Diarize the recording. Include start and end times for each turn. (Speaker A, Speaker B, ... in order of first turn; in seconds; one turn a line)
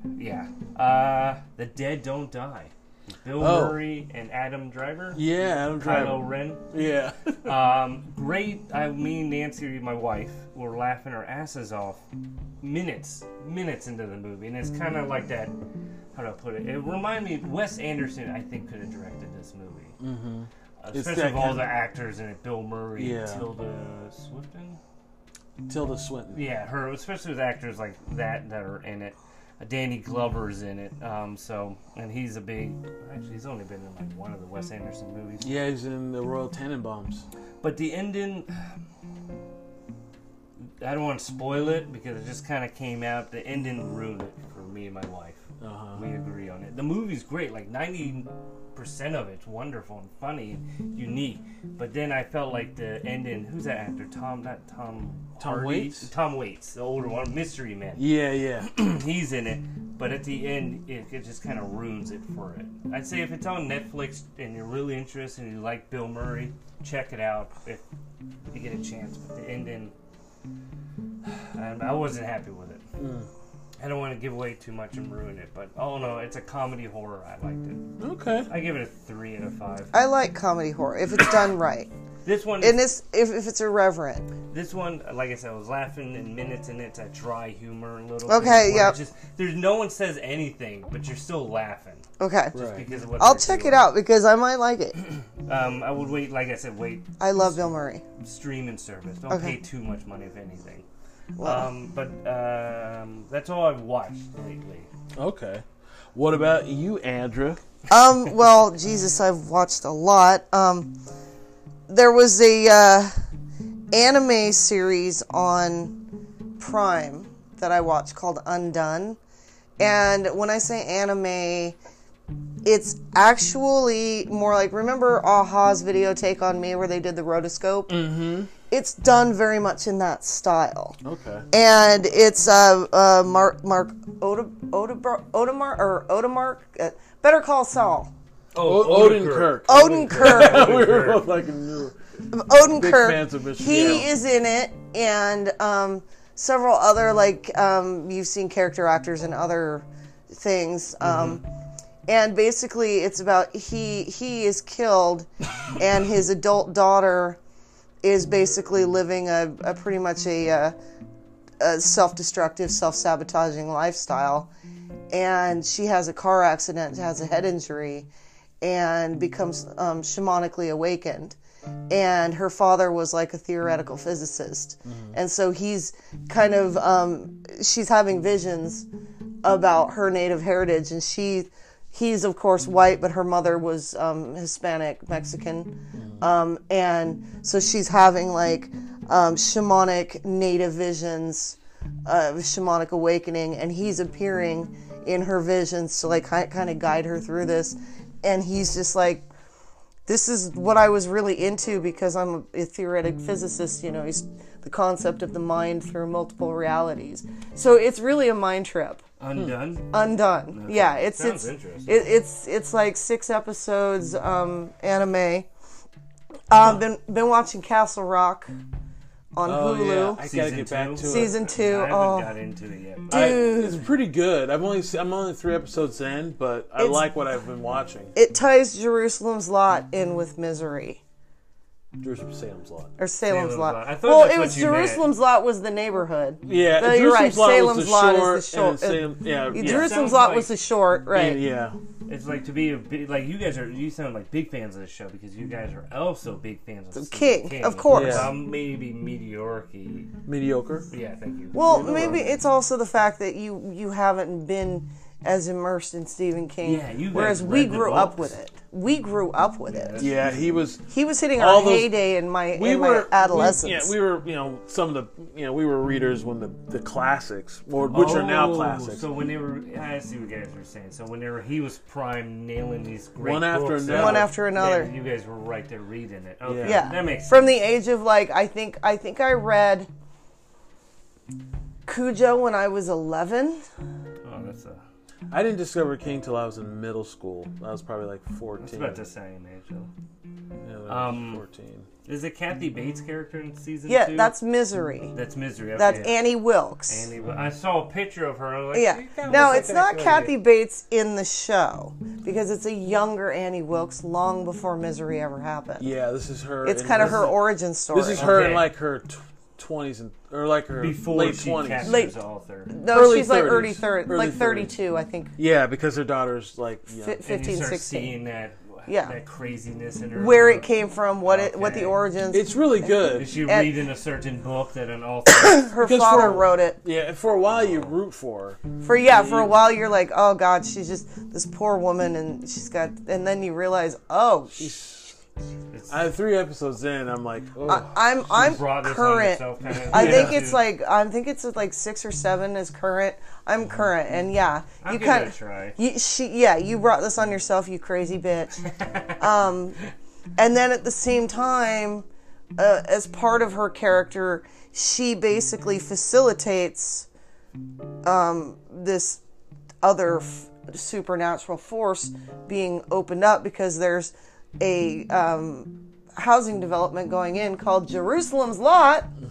Speaker A: 0.2-5.2
Speaker B: 3.4-3.8
Speaker B: 5.1-7.5
Speaker A: 5.8-6.6
Speaker A: 7.4-12.0
Speaker A: 12.6-15.5
Speaker A: 16.1-20.0
Speaker B: 20.0-21.7
Speaker A: 20.8-24.8
Speaker B: 23.0-23.5
Speaker B: 25.7-26.4
Speaker A: 26.3-35.5
Speaker B: 35.4-37.2
Speaker A: 37.6-38.6
Speaker A: 40.8-58.1
Speaker B: 45.6-46.0
Speaker B: 55.4-56.1
Speaker B: 58.0-58.8
Speaker A: 58.6-67.8
Speaker A: 68.5-69.9
Speaker A: 71.2-72.8
Speaker B: 73.0-73.3
Speaker A: 73.8-77.9
Speaker B: 78.0-78.5
Speaker A: 78.5-79.9
Speaker C: 79.9-81.9
Speaker A: 82.2-82.8
Speaker C: 82.6-84.3
Speaker A: 84.5-93.8
Speaker C: 88.3-89.0
Speaker C: 92.2-92.6
Speaker B: 92.5-92.8
Speaker C: 93.2-95.0
Speaker A: 95.5-97.1
Speaker C: 97.2-98.0
Speaker A: 98.2-100.8
Speaker C: 99.3-99.6
Speaker C: 101.4-101.7
Speaker A: 101.4-104.9
Speaker B: 105.2-107.6
Speaker C: 107.9-111.0
Speaker C: 111.9-113.1
Speaker C: 113.9-116.0
Speaker C: 116.6-119.2
Speaker C: 119.8-121.8
Speaker C: 122.7-131.0
Speaker B: 127.9-128.5
Speaker B: 131.0-131.5
Speaker C: 131.5-138.1
Speaker A: 138.5-141.2
Speaker B: 138.6-142.0
Speaker C: 139.7-140.8
Speaker C: 142.3-151.4
Speaker B: 142.6-144.1
Speaker C: 152.1-157.4
Speaker C: 158.0-160.8
Speaker C: 161.6-164.5
Speaker C: 165.1-168.1
Speaker C: 168.6-171.4
Speaker C: 171.9-178.9
Speaker B: 174.8-175.2
Speaker C: 179.4-199.3
Speaker B: 185.9-186.3
Speaker C: 200.1-209.0
Speaker A: 209.2-212.0
Speaker C: 209.9-215.5
Speaker C: 216.5-218.5
Speaker C: 219.3-220.2
Speaker B: 219.4-221.4
Speaker A: 220.2-223.7
Speaker C: 221.0-222.3
Speaker C: 223.1-223.9
Speaker B: 223.1-228.1
Speaker C: 226.8-227.1
Speaker C: 228.2-231.0
Speaker B: 232.0-232.9
Speaker C: 233.0-241.4
Speaker A: 233.3-235.1
Speaker B: 236.4-240.0
Speaker A: 239.6-240.5
Speaker B: 241.1-241.8
Speaker A: 242.1-250.1
Speaker C: 246.9-248.3
Speaker B: 247.9-248.3
Speaker B: 250.3-250.9
Speaker A: 250.9-252.3
Speaker C: 251.5-260.1
Speaker B: 251.7-252.4
Speaker A: 256.6-258.3
Speaker A: 259.7-260.5
Speaker B: 260.0-261.9
Speaker C: 260.9-263.9
Speaker B: 262.5-269.1
Speaker A: 267.9-277.5
Speaker B: 273.2-274.3
Speaker C: 273.9-274.9
Speaker B: 276.4-276.9
Speaker C: 276.6-279.9
Speaker C: 281.9-283.7
Speaker A: 284.2-284.8
Speaker B: 285.3-289.0
Speaker A: 288.6-289.9
Speaker B: 290.6-291.9
Speaker A: 290.9-291.4
Speaker A: 292.1-294.4
Speaker C: 293.9-295.1
Speaker A: 295.1-296.2
Speaker C: 295.8-297.1
Speaker A: 296.9-300.4
Speaker C: 298.7-305.9
Speaker B: 305.8-312.0
Speaker C: 306.6-308.5
Speaker A: 308.1-308.7
Speaker A: 310.8-312.8
Speaker C: 311.8-312.2
Speaker C: 312.7-315.3
Speaker B: 312.9-314.7
Speaker B: 315.4-317.2
Speaker C: 317.0-318.1
Speaker A: 317.2-320.7
Speaker C: 318.9-319.1
Speaker C: 320.1-323.7
Speaker A: 321.2-322.0
Speaker B: 322.3-323.4
Speaker A: 323.1-325.7
Speaker C: 325.3-326.8
Speaker B: 325.8-329.6
Speaker A: 327.4-327.9
Speaker C: 328.8-334.7
Speaker B: 334.6-335.2
Speaker A: 335.7-336.1
Speaker B: 335.9-338.5
Speaker C: 337.6-348.7
Speaker A: 338.3-340.6
Speaker B: 339.9-340.4
Speaker A: 344.8-345.8
Speaker A: 348.7-349.2
Speaker C: 349.2-349.8
Speaker C: 350.4-352.1
Speaker C: 352.6-357.1
Speaker C: 358.0-359.2
Speaker C: 359.8-369.1